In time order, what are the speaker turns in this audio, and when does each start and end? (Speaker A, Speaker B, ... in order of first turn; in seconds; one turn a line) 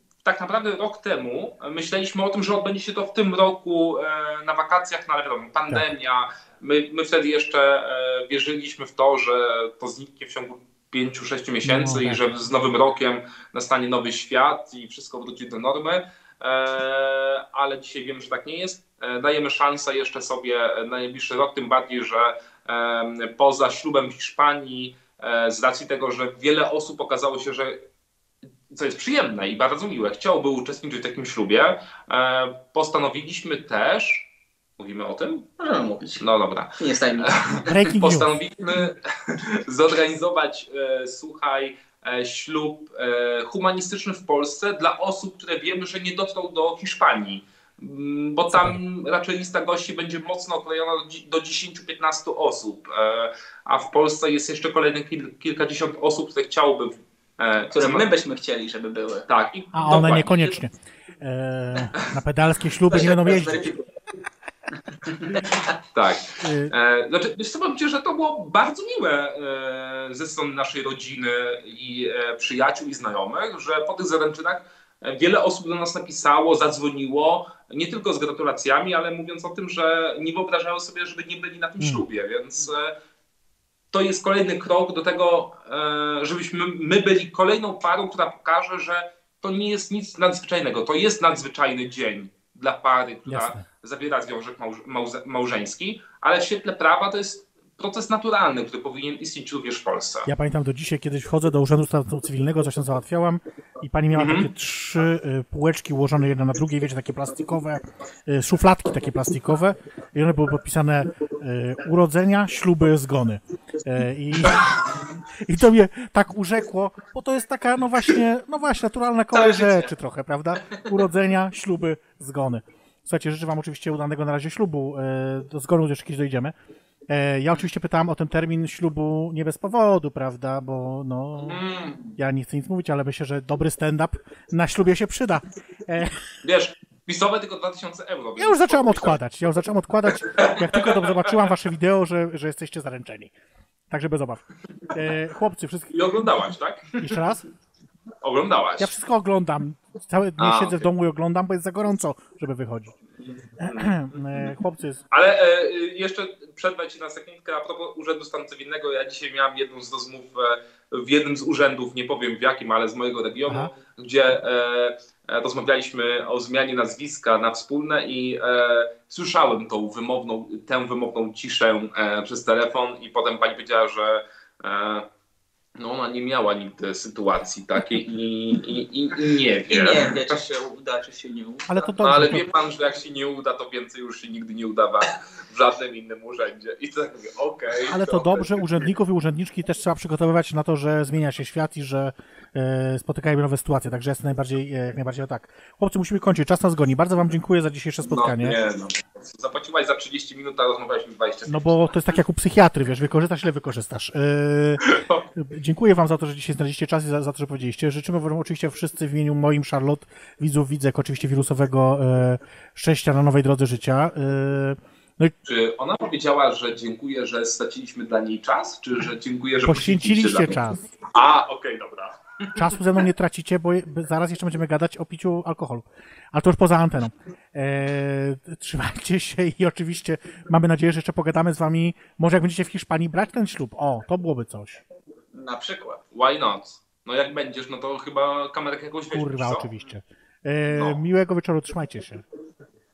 Speaker A: 0.2-27.8
Speaker B: 11.6-12.3
Speaker A: 28.7-35.4
Speaker C: 35.6-36.2
Speaker A: 36.2-58.0
Speaker C: 36.8-37.7
Speaker B: 37.5-38.4
Speaker B: 48.5-48.8
Speaker C: 57.7-59.2
Speaker A: 59.3-60.6
Speaker B: 59.7-63.7
Speaker C: 62.9-63.8
Speaker C: 65.3-65.6
Speaker A: 65.9-82.9
Speaker B: 66.4-66.7
Speaker B: 81.8-82.0
Speaker A: 83.9-100.3
Speaker B: 93.2-93.6
Speaker B: 100.2-114.8
Speaker A: 104.1-104.5
Speaker B: 115.4-126.5
Speaker C: 119.3-119.9
Speaker B: 127.1-131.6
Speaker A: 131.4-132.1
Speaker B: 132.2-136.1
Speaker A: 136.4-139.2
Speaker B: 138.4-143.3
Speaker A: 140.2-141.3
Speaker B: 143.9-146.0
Speaker A: 145.9-147.2
Speaker B: 147.0-147.4
Speaker A: 148.2-148.9
Speaker B: 148.8-152.9
Speaker A: 150.4-150.9
Speaker A: 153.6-154.5
Speaker B: 153.6-155.0
Speaker A: 155.1-175.1
Speaker A: 175.8-180.3
Speaker C: 179.7-181.7
Speaker B: 181.7-182.5
Speaker A: 182.0-188.8
Speaker B: 187.9-198.6
Speaker A: 198.0-201.8
Speaker B: 201.5-204.8
Speaker A: 204.8-205.2
Speaker B: 205.3-215.3
Speaker A: 215.4-222.2
Speaker B: 219.6-220.9
Speaker B: 222.5-234.8
Speaker C: 235.3-236.0
Speaker A: 236.1-239.7
Speaker B: 239.1-242.2
Speaker A: 240.7-241.0